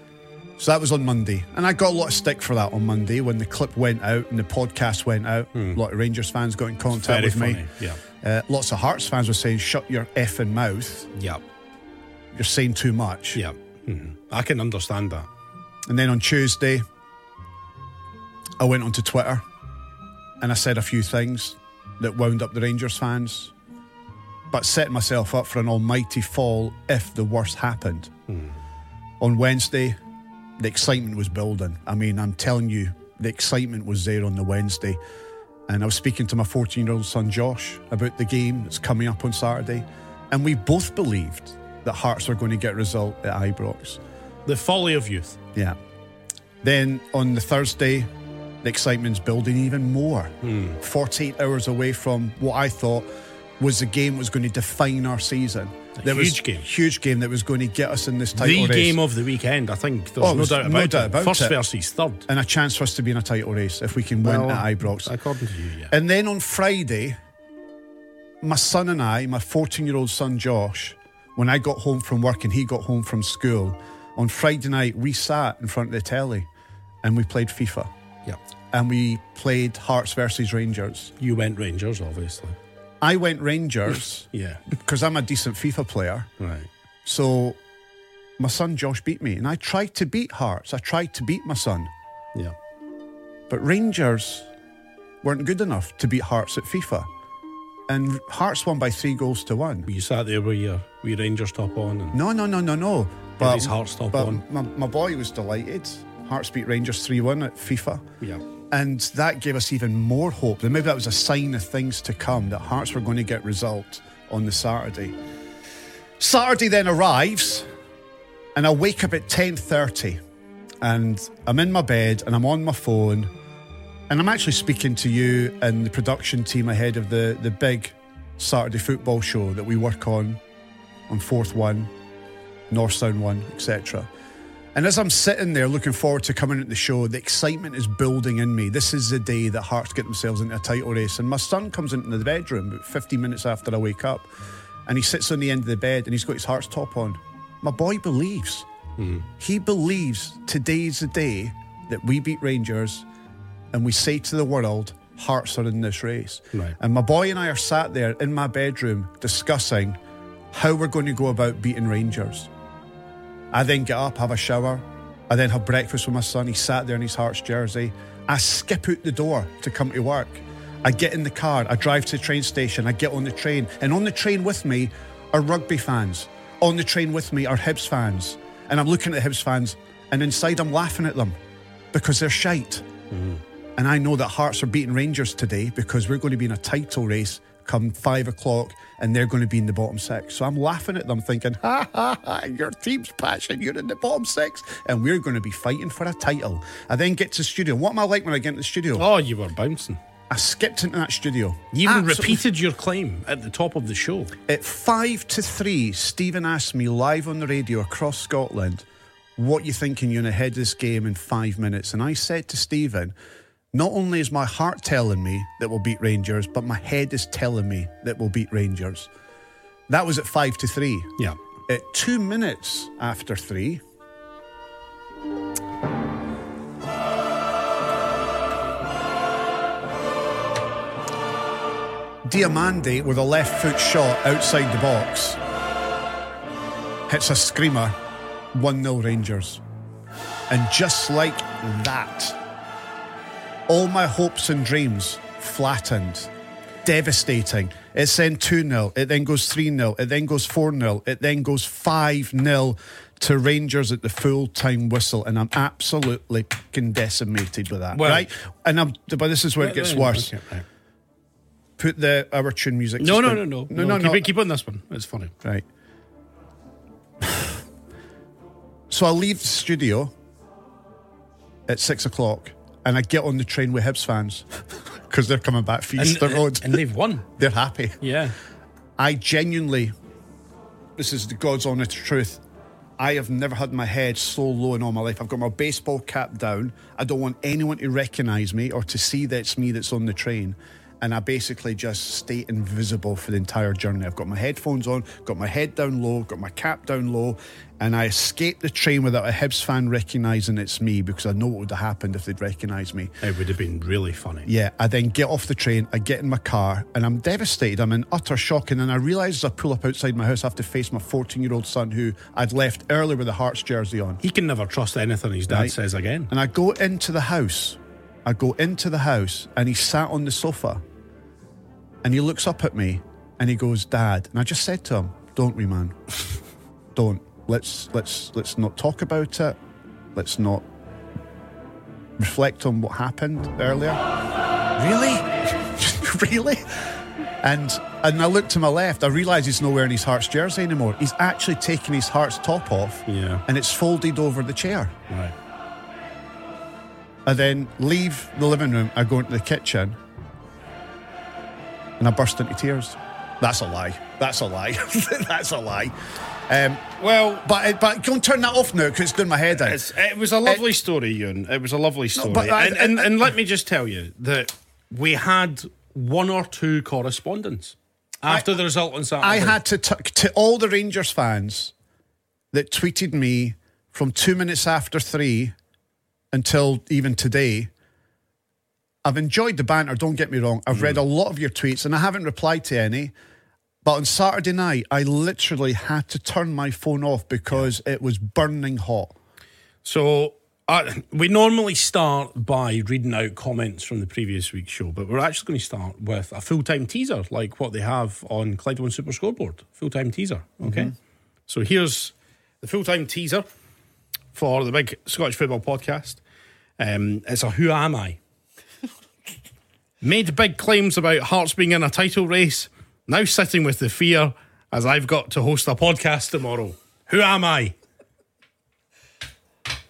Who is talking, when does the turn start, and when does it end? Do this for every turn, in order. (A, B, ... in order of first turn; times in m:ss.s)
0:00.6-0:07.7 A
0:05.5-0:05.8 B
0:06.9-0:08.0 B
0:08.2-0:11.1 A
0:11.2-0:11.4 B
0:12.3-0:13.4 A
0:13.4-0:15.3 B
0:15.9-0:16.8 A
0:18.6-0:19.4 A
0:20.4-0:23.5 A
0:24.5-0:28.1 A
0:28.3-0:28.6 B
0:29.2-0:30.0 A
0:30.6-0:35.0 A
0:35.7-0:44.0 A
0:44.5-0:45.4 B
0:46.6-0:48.1 A
0:48.6-0:53.1 A
0:50.4-0:50.8 B
0:53.6-0:59.0 A
0:56.0-0:56.6 B
0:58.4-1:02.2 B
1:00.2-1:01.6 A
1:02.3-1:05.2 A
1:04.2-1:05.9 B
1:05.9-1:07.2 A
1:08.4-1:16.5 A
1:17.0-1:17.9 A
1:18.7-1:21.1 A
1:21.2-1:22.6 B
1:23.0-1:26.3 A
1:23.9-1:24.6 B
1:26.4-1:26.7 B
1:27.0-1:27.6 A
1:28.4-1:31.9 A
1:33.5-1:34.5 A
1:35.2-1:37.1 A
1:37.9-1:39.9 A
1:39.9-1:42.2 B
1:42.1-1:48.0 A
1:43.4-1:44.4 B
1:48.7-1:55.2 A
1:56.2-1:57.7 A
1:58.6-2:00.2 A
2:00.8-2:03.3 A
2:04.1-2:10.4 A
2:11.1-2:11.9 A
2:12.7-2:14.1 A
2:14.8-2:24.3 A
2:24.9-2:28.7 A
2:29.0-2:29.3 B
2:29.4-2:33.0 A
2:33.7-2:40.0 A
2:40.5-2:42.5 A
2:43.5-3:01.4 A
3:01.9-3:02.9 A
3:03.1-3:03.4 B
3:03.8-3:19.1 A
3:19.0-3:20.0 B
3:20.3-3:22.4 A
3:21.7-3:24.3 B
3:24.5-3:28.8 A
3:29.4-3:33.1 A
3:33.7-3:39.1 A
3:39.9-3:41.2 A
3:41.7-3:43.8 A
3:52.2-3:55.4 A
3:57.1-3:58.0 A
3:58.5-3:59.6 A
4:00.5-4:02.4 A
4:03.7-4:06.3 A
4:06.8-4:20.3 A
4:17.9-4:18.3 B
4:19.6-4:20.7 B
4:21.8-4:24.3 A
4:23.0-4:25.3 B
4:27.2-4:27.5 A
4:28.9-4:30.1 A
4:31.7-4:34.5 A
4:35.1-4:38.0 A
4:36.0-4:37.3 B
4:38.0-4:38.4 B
4:39.0-4:39.9 A
4:41.0-4:42.4 A
4:43.0-5:03.2 A
5:03.2-5:04.5 B
5:04.4-5:14.2 A
5:14.2-5:16.3 B
5:15.5-5:15.8 A
5:16.3-5:20.8 A
5:22.0-5:26.1 A
5:27.0-5:29.6 A
5:30.1-5:30.6 A
5:32.2-5:34.0 A
5:34.8-5:45.0 A
5:43.1-5:43.4 B
5:45.1-5:45.3 B
5:47.3-5:50.0 A
5:52.0-5:56.0 A
5:56.5-5:56.8 A
5:57.0-5:57.5 B
5:57.4-5:59.8 A
5:59.5-6:09.6 B
6:02.2-6:03.3 A
6:09.2-6:11.7 A
6:12.5-6:15.5 A
6:16.3-6:17.7 A
6:19.0-6:23.1 A
6:20.7-6:21.0 B
6:23.8-6:29.1 A
6:29.8-6:40.9 B
6:40.6-6:40.9 A
6:41.5-6:43.4 B
6:44.4-6:46.2 B
6:46.8-6:48.2 B
6:50.0-6:57.8 B